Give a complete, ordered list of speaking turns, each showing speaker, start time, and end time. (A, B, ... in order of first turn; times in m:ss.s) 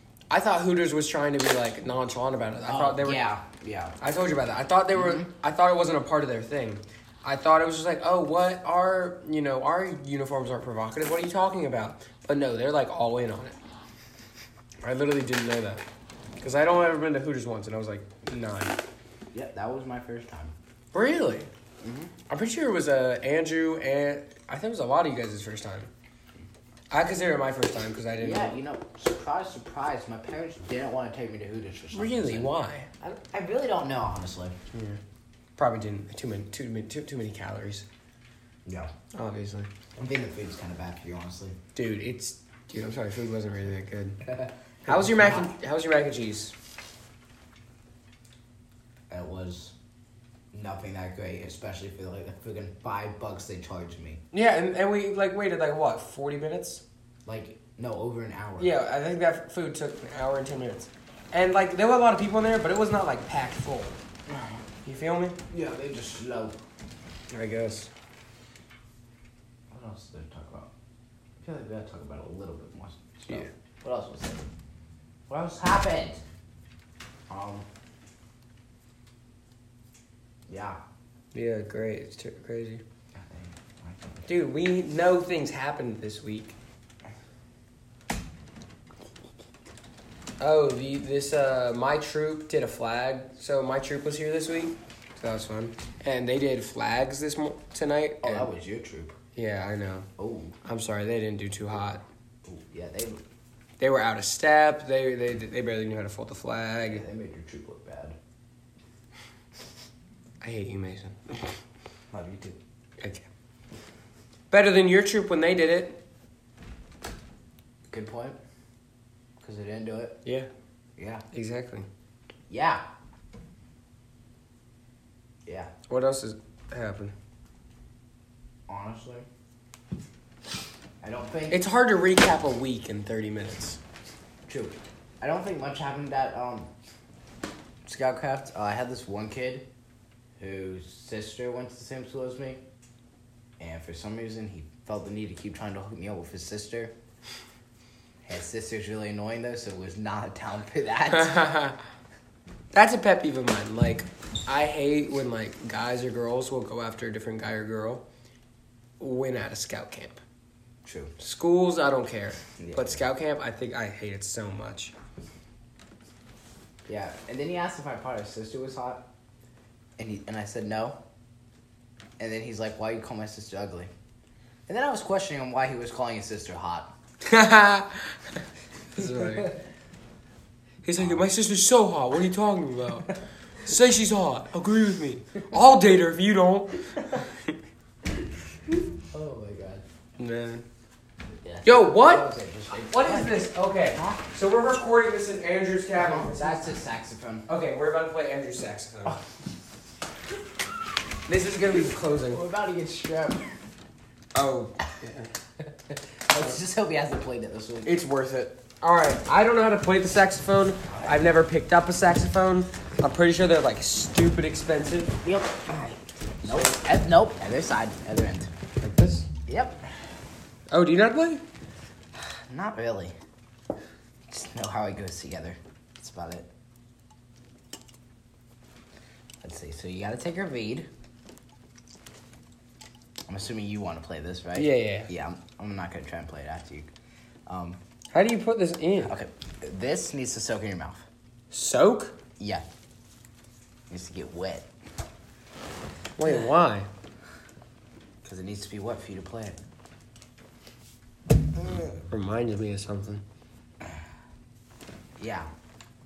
0:00.3-0:03.3 A
0:02.6-0:04.0 B
0:04.0-0:13.6 A
0:04.9-0:05.2 B
0:14.8-0:15.8 A
0:16.4-0:18.8 A
0:19.3-0:20.5 B
0:20.9-0:21.5 A
0:21.8-0:22.1 B
0:22.3-0:25.9 A
0:26.9-0:28.6 A
0:28.2-0:34.5 B
0:31.9-0:32.9 A
0:34.7-0:35.0 A
0:35.6-0:37.9 A
0:39.1-0:39.7 A
0:40.0-0:41.6 B
0:41.8-0:44.2 A
0:44.3-0:45.5 B
0:44.9-0:46.5 A
0:49.1-0:49.7 B
0:50.5-0:54.2 B
0:54.3-0:56.8 A
0:57.3-0:58.7 B
0:58.6-1:04.0 A
1:04.3-1:04.6 B
1:04.8-1:05.4 A
1:05.5-1:06.6 B
1:07.3-1:07.9 A
1:09.7-1:10.7 B
1:11.4-1:14.5 B
1:15.3-1:16.2 B
1:17.3-1:17.7 B
1:20.5-1:20.8 B
1:21.3-1:22.8 A
1:23.2-1:24.3 B
1:24.3-1:26.6 A
1:30.4-1:38.5 A
1:38.2-1:39.2 B
1:39.4-1:40.1 A
1:40.2-1:40.6 B
1:40.6-1:42.0 A
1:42.4-1:43.2 B
1:43.8-1:47.0 A
1:46.9-1:48.2 B
1:50.4-1:51.6 A
1:52.1-1:52.6 B
1:53.0-1:53.3 A
1:54.5-1:56.0 A
1:57.9-1:58.4 B
1:59.4-2:00.2 B
2:01.0-2:01.2 B
2:01.3-2:01.9 A
2:02.5-2:02.8 B
2:05.4-2:05.7 B
2:05.9-2:07.1 A
2:08.7-2:09.3 B
2:11.0-2:11.7 B
2:11.5-2:13.8 A
2:14.5-2:16.7 B
2:17.8-2:19.7 B
2:20.4-2:22.6 B
2:23.6-2:26.9 B
2:28.2-2:31.5 B
2:31.1-2:31.8 A
2:32.7-2:38.0 A
2:39.0-2:40.2 A
2:40.8-2:41.1 B
2:41.2-2:44.9 A
2:42.6-2:43.0 B
2:46.9-2:49.1 B
2:50.0-2:51.0 B
2:52.2-2:53.9 B
2:54.7-2:56.9 B
2:57.2-2:58.2 A
2:58.9-2:59.6 A
2:59.0-2:59.5 B
3:00.8-3:07.5 A
3:01.0-3:01.3 B
3:09.1-3:09.8 B
3:10.2-3:10.6 A
3:11.4-3:14.2 B
3:11.6-3:12.3 A
3:12.8-3:16.7 A
3:15.9-3:17.5 B
3:17.5-3:19.2 A
3:21.3-3:22.4 A
3:22.3-3:23.5 B
3:24.3-3:25.3 A
3:26.3-3:28.0 B
3:27.8-3:35.2 A
3:30.9-3:31.3 B
3:35.2-3:38.5 B
3:38.8-3:39.3 A
3:39.5-3:39.8 B
3:40.7-3:41.4 A
3:42.5-3:43.2 B
3:44.3-3:46.5 B
3:49.4-3:50.9 B
3:53.3-3:56.9 B
3:54.6-3:55.1 A
3:57.5-3:57.8 B
3:58.1-3:59.1 A
3:59.0-4:01.0 B
4:01.5-4:02.2 A
4:02.4-4:02.6 B
4:03.9-4:04.7 B
4:06.2-4:06.9 A
4:08.2-4:09.6 B
4:11.7-4:13.2 A
4:15.2-4:15.5 B